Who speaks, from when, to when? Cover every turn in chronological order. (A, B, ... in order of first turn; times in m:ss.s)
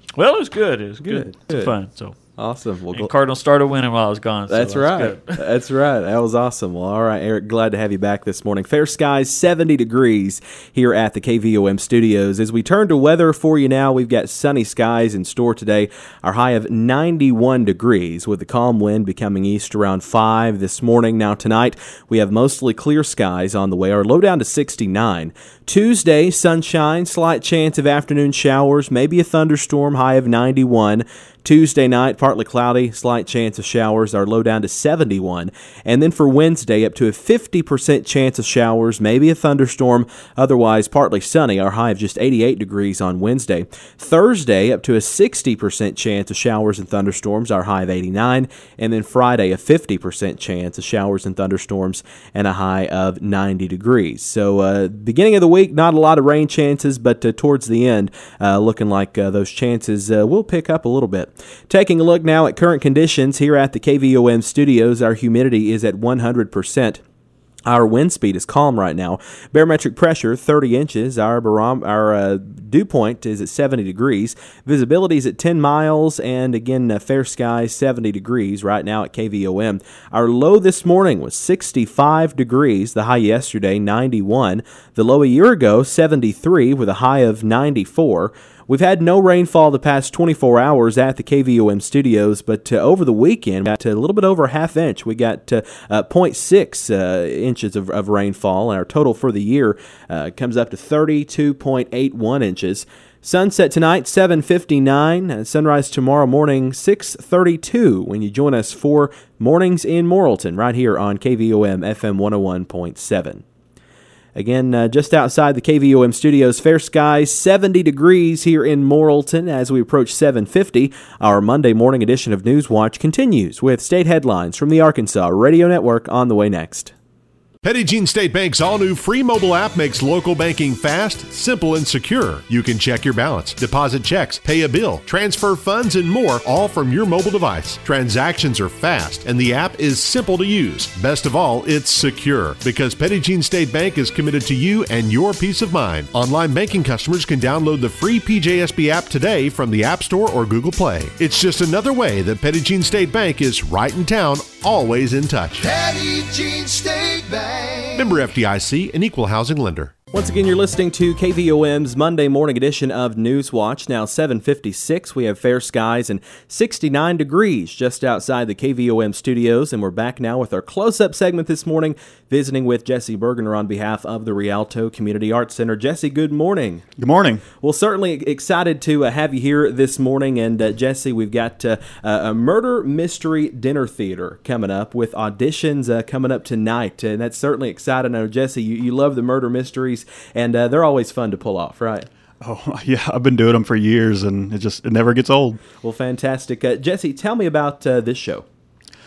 0:00.2-0:02.2 A
0:01.0-0:01.7 B
0:02.4-0:03.1 B
0:02.9-0:05.5 A
0:04.5-1:07.0 B
1:07.7-1:53.4 B
1:54.3-2:06.9 B
2:07.6-2:35.6 C
2:35.6-2:38.2 D
2:37.9-2:39.9 C
2:40.1-2:56.9 B
2:57.0-2:57.4 E
2:57.6-3:12.1 B
3:12.4-3:15.6 E
3:15.8-3:18.4 B